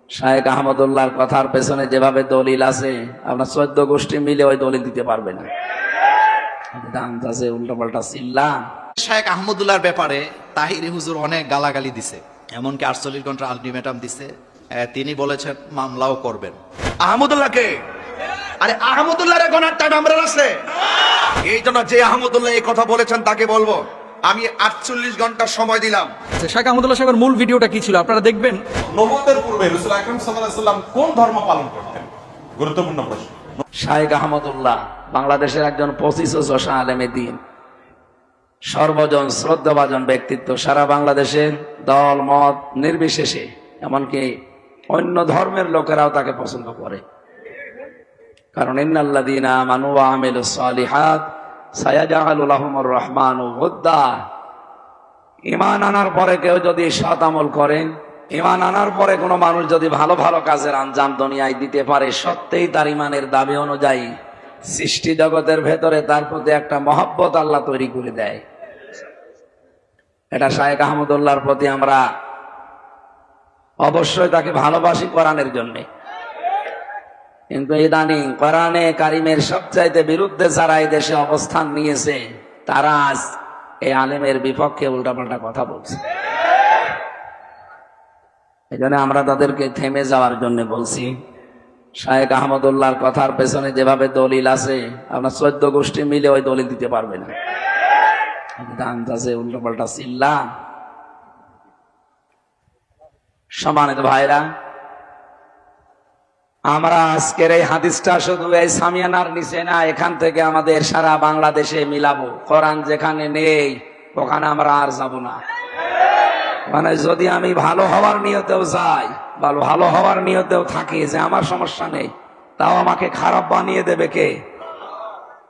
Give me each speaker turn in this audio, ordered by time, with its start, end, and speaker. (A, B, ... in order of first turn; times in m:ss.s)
0:00.2-0:05.5 A
0:06.8-0:08.6 A
0:09.0-0:16.6 B
0:17.0-0:17.7 C
0:18.6-0:20.6 C
0:21.4-0:26.1 C
0:26.4-0:28.6 D
0:28.9-0:33.6 E
0:33.8-0:37.4 A
0:38.7-0:44.3 A
0:44.9-0:47.0 A
0:48.6-0:54.2 A
0:55.5-1:04.1 A
1:04.7-1:08.4 A
1:10.3-1:12.0 A
1:13.8-1:15.8 A
1:17.5-1:26.0 A
1:28.7-1:31.1 A
1:32.0-1:37.3 A
1:38.6-1:40.5 A
1:43.6-1:44.4 A
1:46.7-1:55.4 A
1:56.7-2:04.3 A